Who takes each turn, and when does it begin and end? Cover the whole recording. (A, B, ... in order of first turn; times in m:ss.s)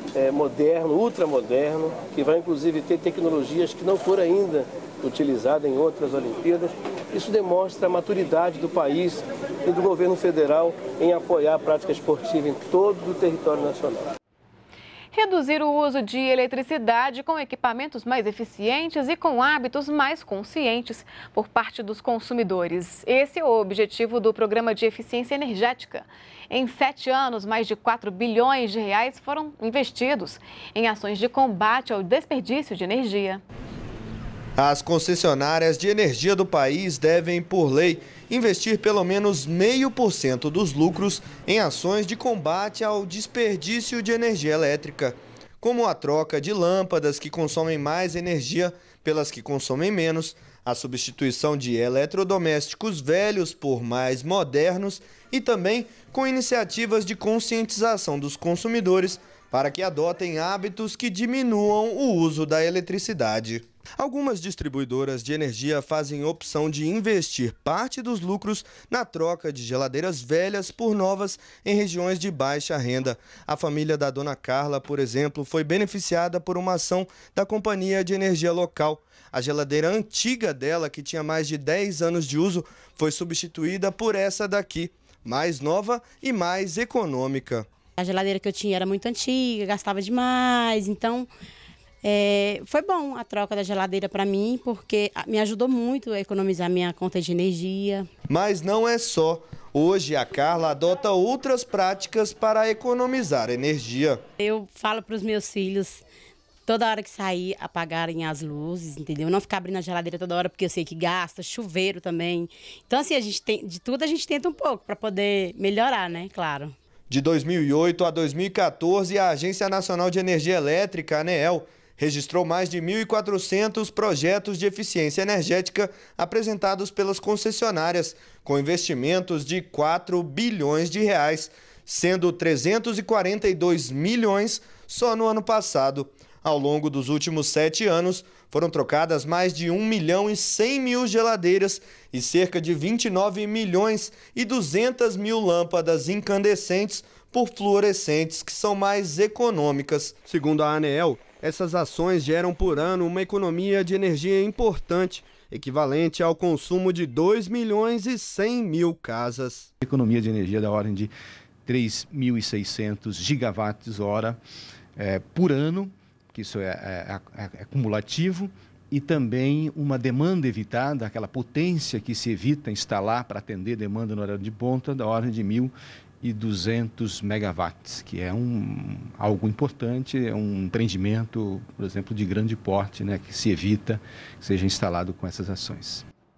0:00.1-0:14.1 A
0:15.1-0:33.4 B
0:34.6-1:27.7 C
1:28.0-1:31.3 D
1:32.0-1:38.1 D
1:38.3-1:44.2 C
1:44.4-1:46.0 D
1:46.7-1:56.7 D
1:57.1-2:39.7 C
2:39.8-2:41.1 E
2:41.6-2:44.4 E
2:45.0-3:06.0 E